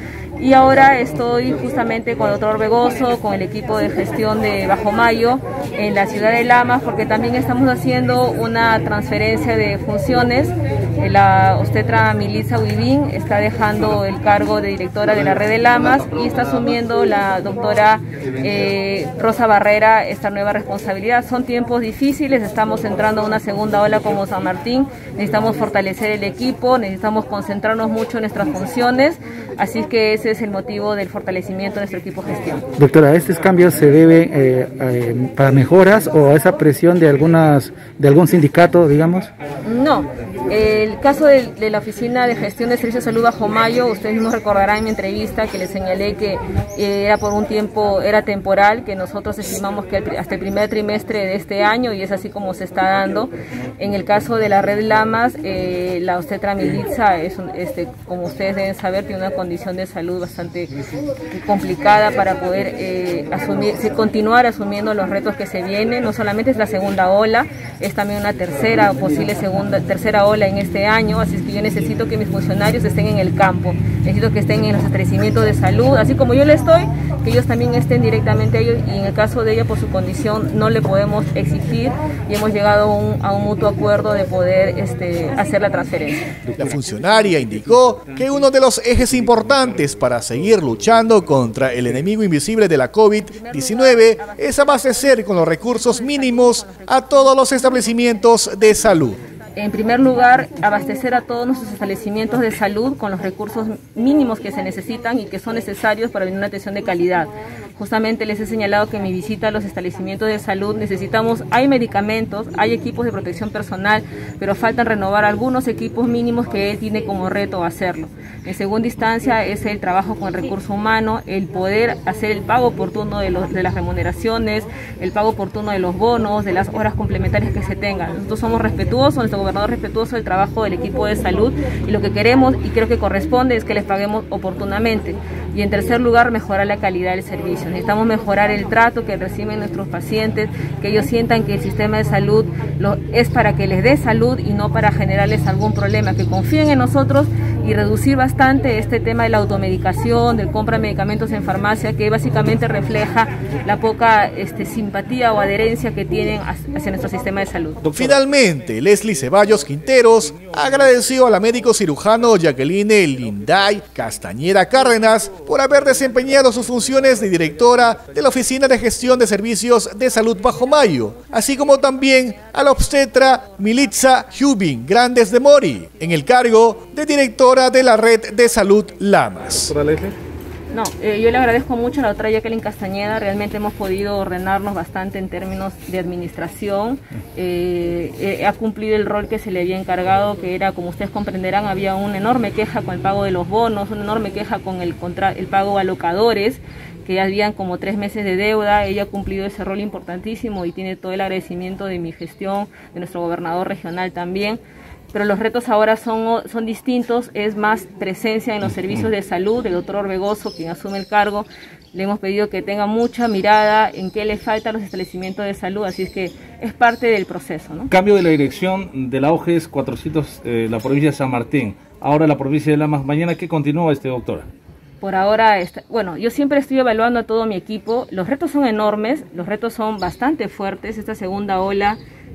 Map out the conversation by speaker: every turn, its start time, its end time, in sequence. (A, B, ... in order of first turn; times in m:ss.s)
0:00.4-0:32.7 A
0:32.8-0:39.3 B
0:39.6-1:00.7 A
1:01.3-1:26.3 A
1:26.5-1:39.2 C
1:33.3-1:37.2 A
1:39.6-2:37.8 A
2:37.8-2:38.2 D
2:37.9-2:59.7 C
2:40.0-2:40.9 D
2:47.3-2:48.0 D
2:59.7-3:00.2 D
3:00.7-3:24.6 A
3:25.1-3:37.9 A
3:37.9-3:44.5 D
3:45.0-3:52.0 A